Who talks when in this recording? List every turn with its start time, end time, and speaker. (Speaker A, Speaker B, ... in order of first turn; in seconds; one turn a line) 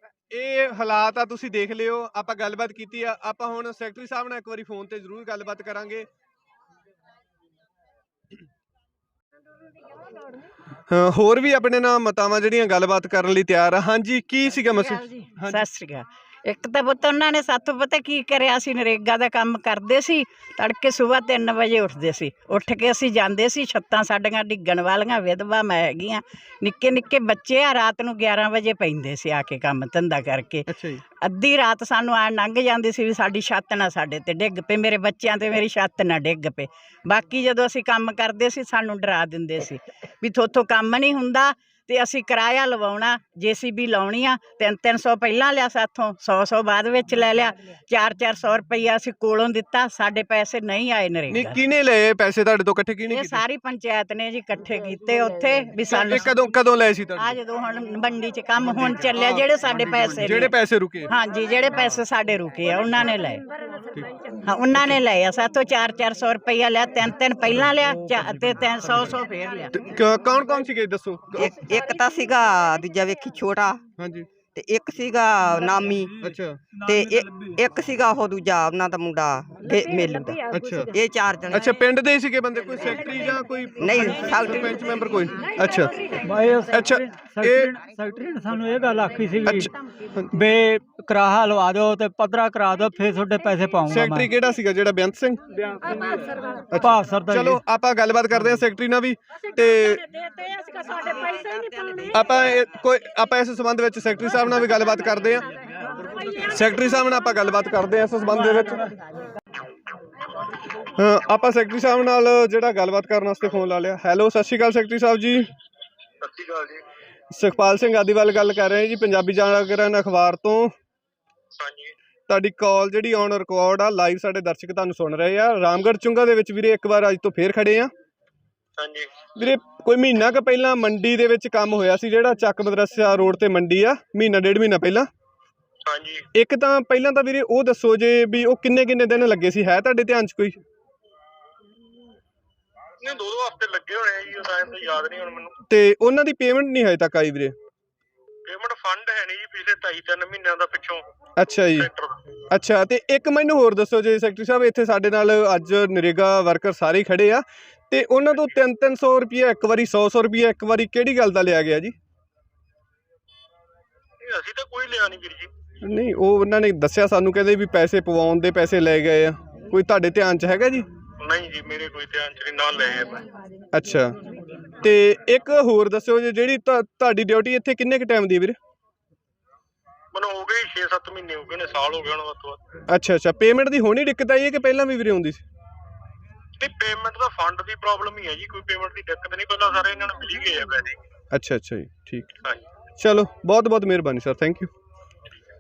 Speaker A: 0.3-6.1
Speaker A: 10.9-15.6
Speaker B: 15.4-30.7
Speaker A: 30.7-31.0
Speaker B: 31.2-51.6
Speaker A: 51.3-53.4
Speaker B: 53.1-56.4
Speaker A: 55.9-57.4
Speaker B: 57.1-63.4
Speaker A: 58.6-59.5
Speaker A: 60.2-61.1
Speaker B: 64.5-69.8
Speaker A: 69.7-71.5
Speaker C: 71.3-73.8
Speaker A: 74.0-74.3
Speaker C: 74.5-76.1
Speaker A: 76.2-76.6
Speaker D: 76.2-77.5
Speaker C: 76.8-80.4
Speaker A: 80.5-80.9
Speaker C: 80.9-81.6
Speaker A: 81.5-85.9
Speaker C: 83.8-84.8
Speaker D: 84.0-84.3
Speaker D: 86.2-89.7
Speaker A: 86.7-87.7
Speaker A: 89.4-90.3
Speaker D: 90.3-94.3
Speaker A: 93.9-100.0
Speaker D: 96.7-97.6
Speaker A: 102.1-105.5
Speaker A: 106.5-108.9
Speaker A: 111.0-115.5
Speaker E: 116.2-116.8
Speaker A: 117.3-120.7
Speaker E: 121.6-121.9
Speaker A: 122.3-127.9
Speaker E: 128.8-129.1
Speaker A: 129.4-135.1
Speaker E: 135.8-136.2
Speaker A: 136.3-140.6
Speaker E: 143.0-145.5
Speaker A: 145.7-147.5
Speaker E: 148.5-151.0
Speaker A: 151.4-151.9
Speaker E: 151.8-152.1
Speaker A: 152.5-161.9
Speaker E: 164.2-165.5
Speaker A: 165.8-170.8
Speaker E: 171.2-173.1
Speaker A: 173.7-174.1
Speaker A: 174.8-178.6
Speaker E: 180.1-182.6
Speaker A: 182.9-185.4
Speaker E: 186.6-190.9
Speaker A: 191.3-192.3
Speaker A: 193.0-194.7